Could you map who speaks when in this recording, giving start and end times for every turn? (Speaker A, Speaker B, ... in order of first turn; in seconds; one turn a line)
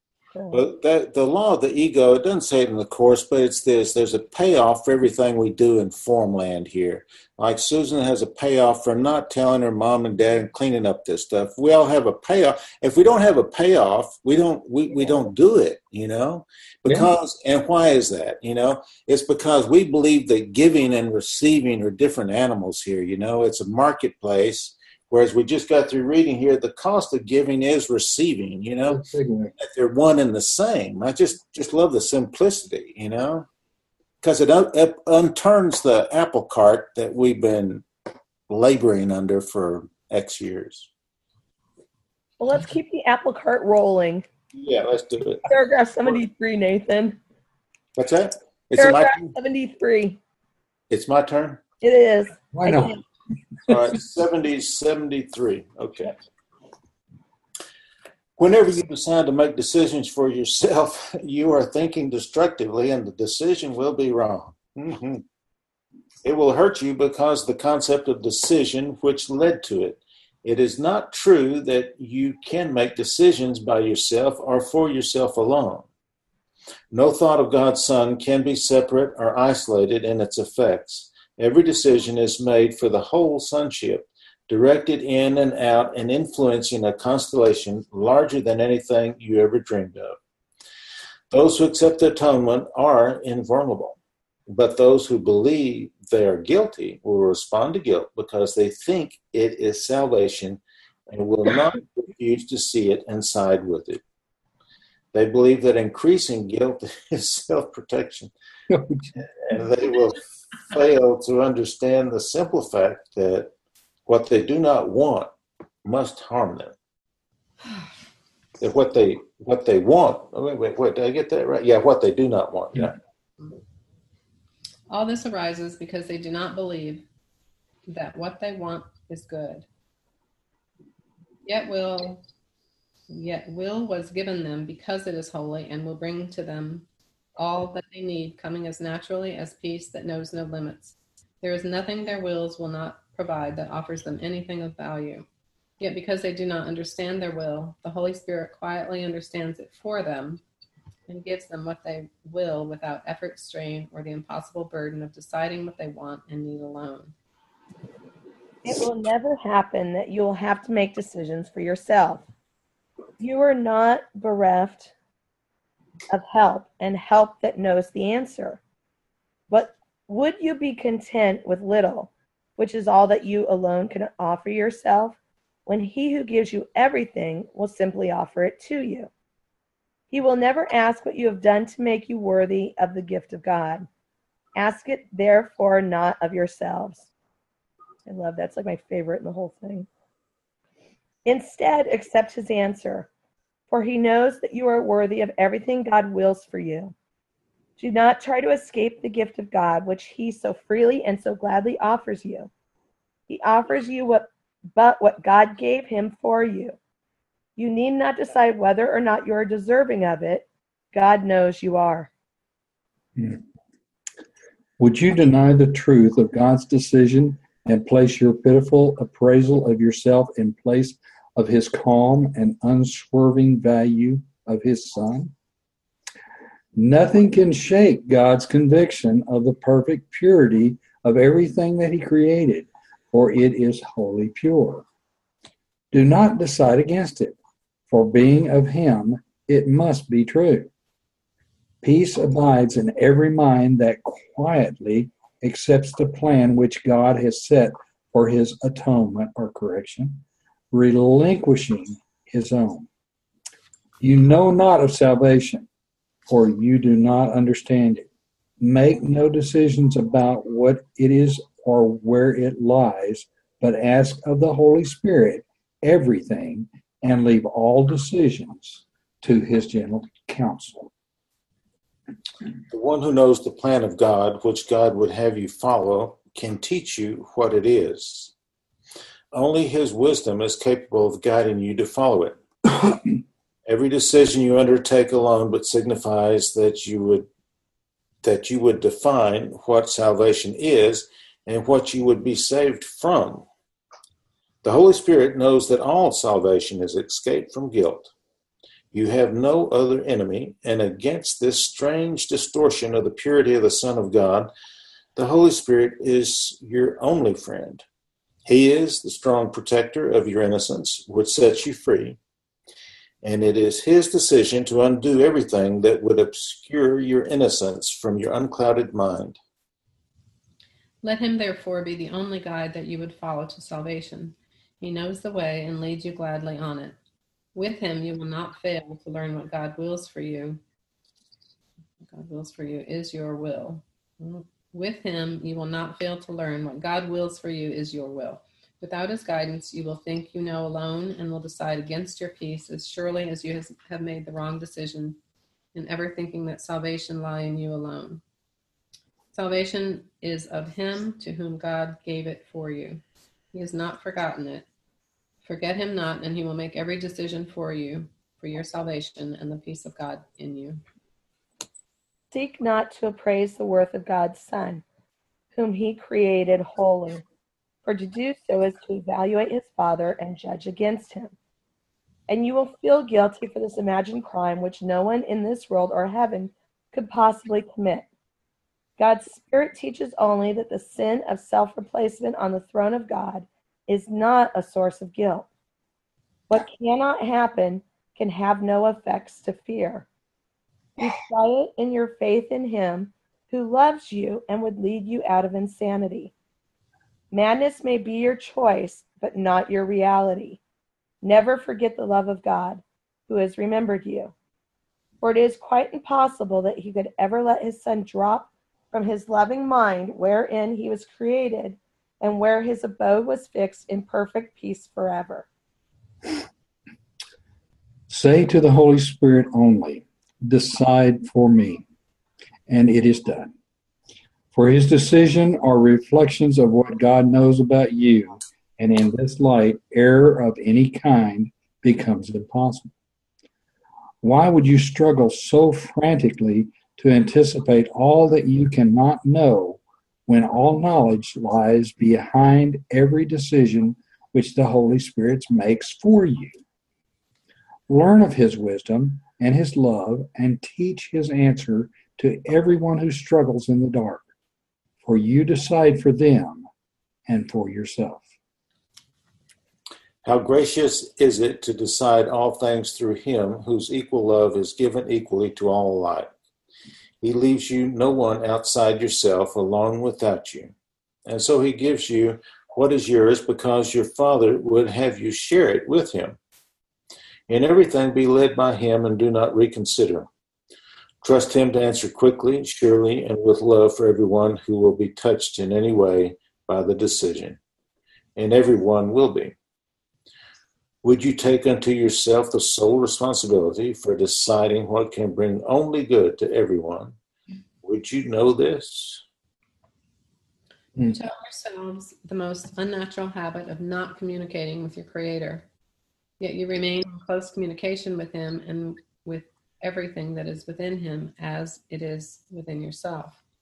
Speaker A: 0.3-0.6
Speaker B: 0.5-29.0
Speaker C: 28.9-29.5
Speaker B: 29.6-33.5
Speaker B: 34.2-37.9
Speaker B: 38.5-40.9
Speaker A: 42.4-44.3
Speaker B: 44.5-45.5
Speaker A: 45.4-47.2
Speaker B: 48.0-49.3
Speaker A: 48.8-50.2
Speaker B: 50.9-51.6
Speaker A: 51.8-53.0
Speaker C: 52.5-53.0
Speaker B: 53.7-56.1
Speaker B: 58.4-65.2
Speaker B: 66.2-75.9
Speaker B: 76.9-90.2
Speaker B: 91.3-104.0
Speaker B: 105.1-108.3
Speaker C: 108.7-109.1
Speaker B: 109.1-113.5
Speaker B: 114.1-115.3
Speaker B: 115.8-116.8
Speaker B: 118.6-123.0
Speaker D: 124.9-127.0
Speaker D: 127.9-129.7
Speaker D: 131.4-132.2
Speaker D: 133.1-136.8
Speaker D: 137.4-145.3
Speaker D: 145.8-150.4
Speaker D: 151.1-157.1
Speaker A: 158.6-162.3
Speaker A: 163.2-164.9
Speaker A: 166.1-168.6
Speaker A: 169.5-179.1
Speaker A: 180.1-183.9
Speaker A: 184.6-187.1
Speaker A: 188.1-189.9
Speaker A: 191.2-193.1
Speaker A: 193.7-196.9
Speaker A: 197.8-202.5
Speaker A: 203.3-206.8
Speaker A: 207.6-212.1
Speaker C: 214.8-225.3
Speaker C: 226.8-234.8
Speaker C: 235.9-237.4
Speaker C: 237.9-240.7
Speaker C: 241.8-252.9
Speaker C: 254.0-255.7
Speaker C: 256.3-258.1
Speaker C: 258.6-270.9
Speaker B: 272.7-278.3
Speaker B: 279.3-282.4
Speaker B: 283.7-287.3
Speaker B: 288.2-293.5
Speaker B: 294.6-298.1
Speaker B: 298.9-304.5
Speaker B: 305.2-307.9
Speaker B: 308.5-312.2
Speaker B: 313.2-319.4
Speaker D: 321.0-327.0
Speaker D: 327.6-330.6
Speaker D: 332.1-345.2
Speaker D: 345.8-348.2
Speaker D: 349.3-353.0
Speaker D: 353.5-354.7
Speaker D: 355.4-360.8
Speaker A: 362.3-364.8
Speaker A: 365.6-367.2
Speaker A: 367.9-371.3
Speaker A: 372.3-378.1
Speaker A: 379.0-385.5
Speaker A: 386.5-390.1
Speaker A: 391.0-396.3
Speaker A: 397.3-400.6
Speaker A: 401.2-404.3
Speaker A: 405.2-415.5
Speaker C: 418.1-421.8
Speaker C: 422.7-423.5
Speaker C: 424.5-432.9
Speaker C: 434.2-446.6
Speaker C: 447.9-454.3
Speaker C: 455.0-456.7
Speaker C: 457.3-458.2
Speaker B: 460.2-466.3
Speaker B: 467.2-470.7
Speaker B: 471.3-476.4
Speaker B: 477.5-480.3
Speaker B: 481.2-487.6
Speaker B: 488.4-489.6
Speaker B: 491.0-497.2
Speaker B: 497.8-499.2
Speaker D: 501.0-505.7
Speaker D: 506.4-513.4